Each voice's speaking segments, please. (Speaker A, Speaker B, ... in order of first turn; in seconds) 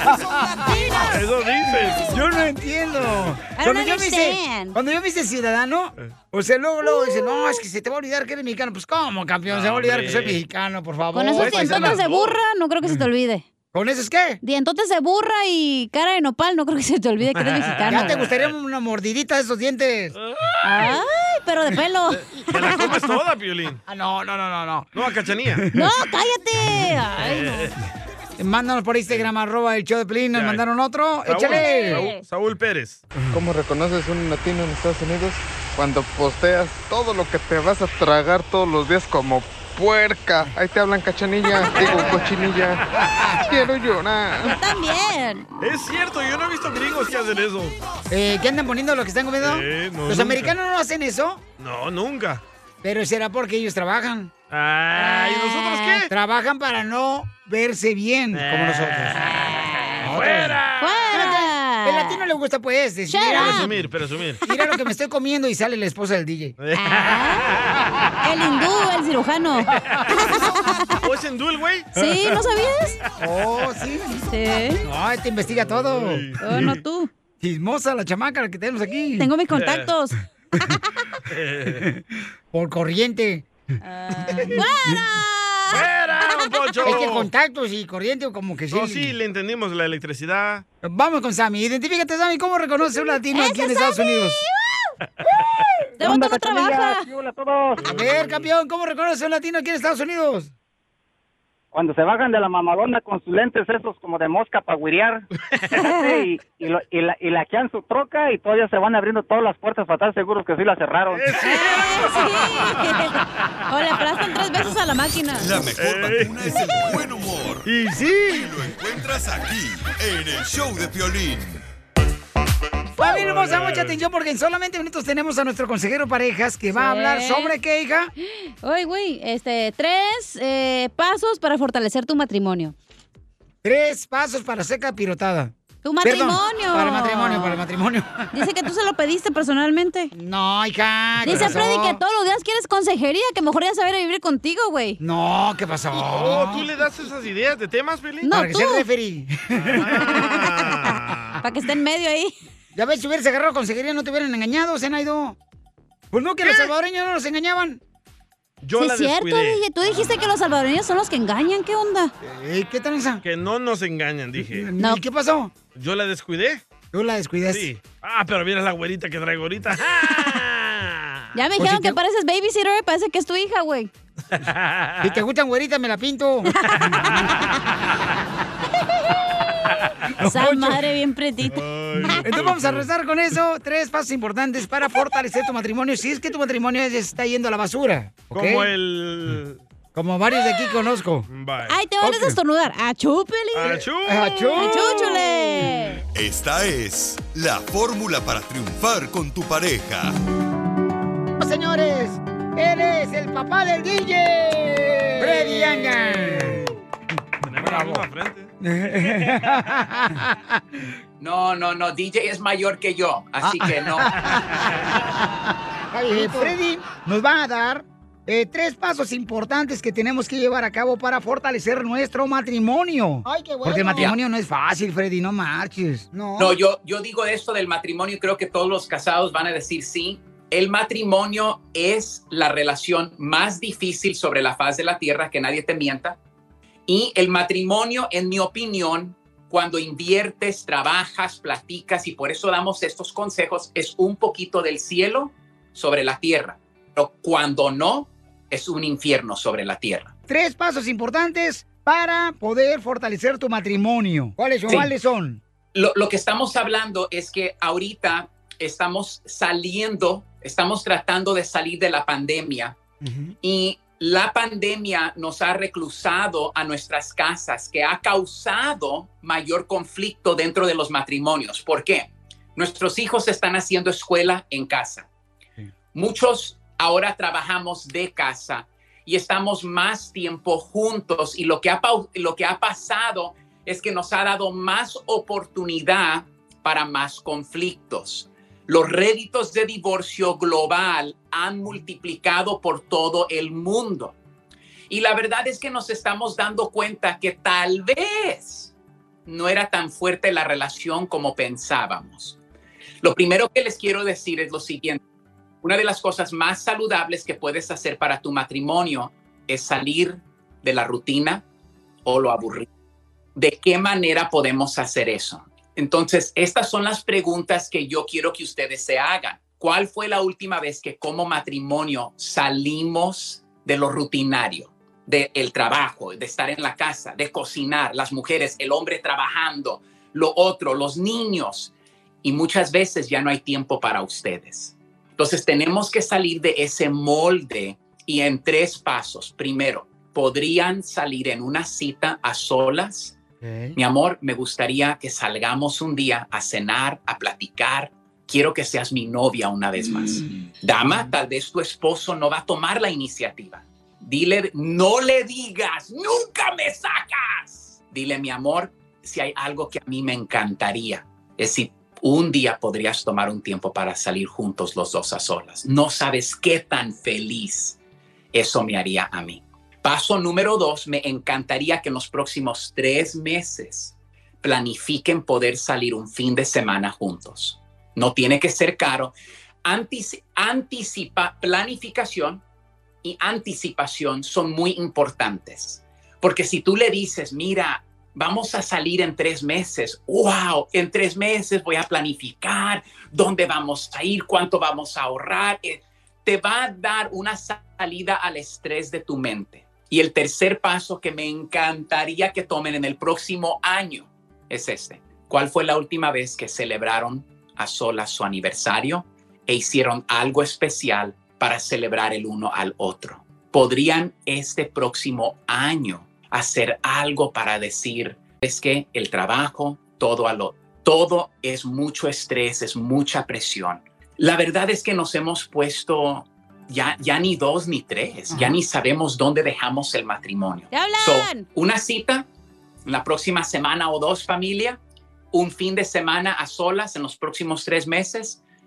Speaker A: 0.1-0.7, 2.0-12.0, 13.7-14.4, 17.9-20.1, 23.9-24.9, 28.4-32.0, 48.1-51.4, 52.8-54.3, 56.0-59.3, 60.0-60.6, 61.1-63.7, 64.4-66.5, 73.2-74.2, 74.8-76.3, 77.4-79.3, 82.5-83.5, 84.3-85.0, 86.8-89.1, 90.8-94.4, 97.8-100.5, 123.0-128.1, 133.6-138.3, 140.1-142.0, 145.0-146.7, 148.3-150.3, 152.7-155.4, 156.1-157.8, 162.2-163.2, 164.4-165.5, 166.9-167.7, 171.6-172.0, 175.0-176.5, 180.2-180.8, 182.1-188.7, 189.9-191.2, 192.0-192.4, 193.8-195.7, 201.4-206.7, 207.6-208.0, 208.6-210.4, 213.4-214.3, 215.9-226.6, 250.3-255.4, 263.0-263.3, 343.4-343.8
Speaker B: 0.8-1.1, 3.5-4.8, 7.0-7.4, 11.1-13.4, 14.4-18.2, 20.6-23.1, 25.7-27.7, 31.5-32.2, 41.6-42.1, 44.4-45.4, 55.0-56.0, 59.5-62.2, 63.1-63.7, 66.8-67.5, 68.2-71.0, 71.9-73.0, 74.2-74.8, 76.4-77.1, 79.2-80.2, 84.0-86.7, 93.3-94.9, 96.0-97.0, 105.8-106.2, 111.3-115.5, 126.7-127.5, 128.3-132.7, 135.8-137.6, 138.3-140.1, 141.2-145.0, 148.2-148.8, 150.0-152.3, 156.4-156.7, 158.8-162.1, 171.3-173.9, 180.2-182.2, 191.7-193.8, 194.5-196.0, 430.7-431.5
Speaker C: 1.1-2.1, 3.0-3.3, 9.5-10.4, 11.3-13.0, 17.3-18.5, 22.5-23.8, 24.9-25.6, 27.1-27.8, 30.3-30.6, 31.2-33.0, 45.6-47.8, 49.4-50.5, 51.6-52.4, 54.5-56.1, 58.3-61.1, 63.3-64.4, 66.6-67.8, 69.9-70.1, 71.0-72.4, 75.6-76.8, 79.5-79.9, 81.3-81.9, 85.7-87.3, 88.7-90.6, 97.8-98.5, 111.1-113.0, 115.8-116.4, 117.7-118.1, 123.0-124.0, 141.3-141.6, 145.9-148.3, 149.5-151.4, 158.6-159.6, 163.2-164.7, 165.7-166.6, 167.5-171.2, 174.4-175.1, 176.8-177.3, 181.5-182.9, 188.3-189.6, 191.3-191.8, 193.5-194.4, 206.3-206.6, 207.4-208.5
Speaker D: 33.3-42.8, 43.5-44.5
Speaker E: 96.0-97.8, 101.7-105.2, 105.9-111.2
Speaker F: 115.4-117.7, 118.2-121.6, 196.1-200.1
Speaker G: 211.2-214.1, 226.4-236.2, 236.9-250.1, 255.7-262.8, 263.4-275.1, 275.9-294.1, 294.9-298.7, 299.2-302.4, 303.0-305.0, 305.6-311.4, 312.0-312.7, 313.4-331.7, 332.2-343.1, 343.8-367.8, 368.3-379.1, 379.6-382.4, 383.0-432.3, 432.9-434.8, 435.3-438.4